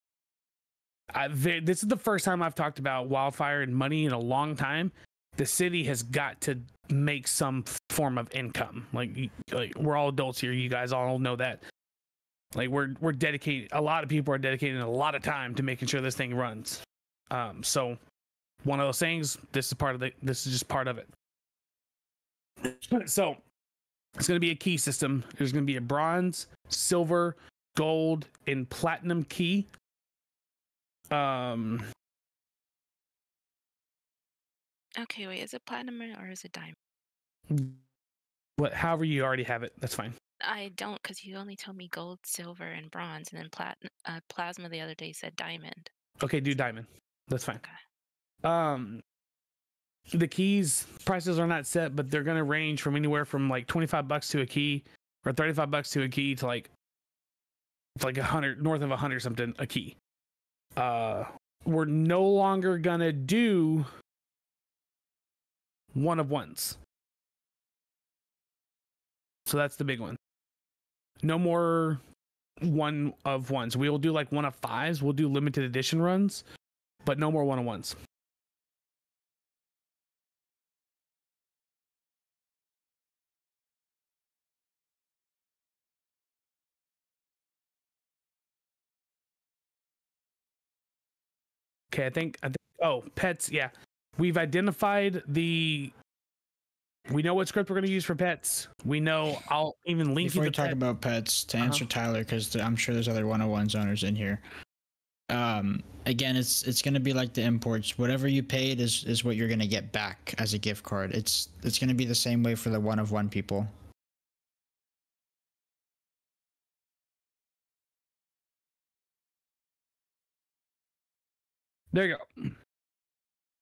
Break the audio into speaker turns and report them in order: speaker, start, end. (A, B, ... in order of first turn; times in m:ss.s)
0:01.1-0:11.6 A
0:12.5-0:18.0 A
0:18.6-0:21.1 A
0:22.6-0:23.4 A
0:24.2-0:29.7 A
0:31.1-0:31.8 A
0:35.0-0:36.8 B
0:37.5-0:37.8 A
0:38.6-0:40.1 A
0:40.4-0:45.9 B
0:46.2-0:47.6 A
0:48.4-0:49.0 A
0:50.1-0:56.7 A
0:58.0-1:00.0 A
1:00.8-1:03.9 A
1:05.9-1:06.8 A
1:09.5-1:10.2 A
1:11.2-1:12.0 A
1:12.6-1:16.4 A
1:17.0-1:18.0 A
1:31.9-1:35.9 A
1:37.1-1:40.8 A
1:40.2-1:44.4 C
1:45.3-1:53.7 C
2:01.9-2:02.5 A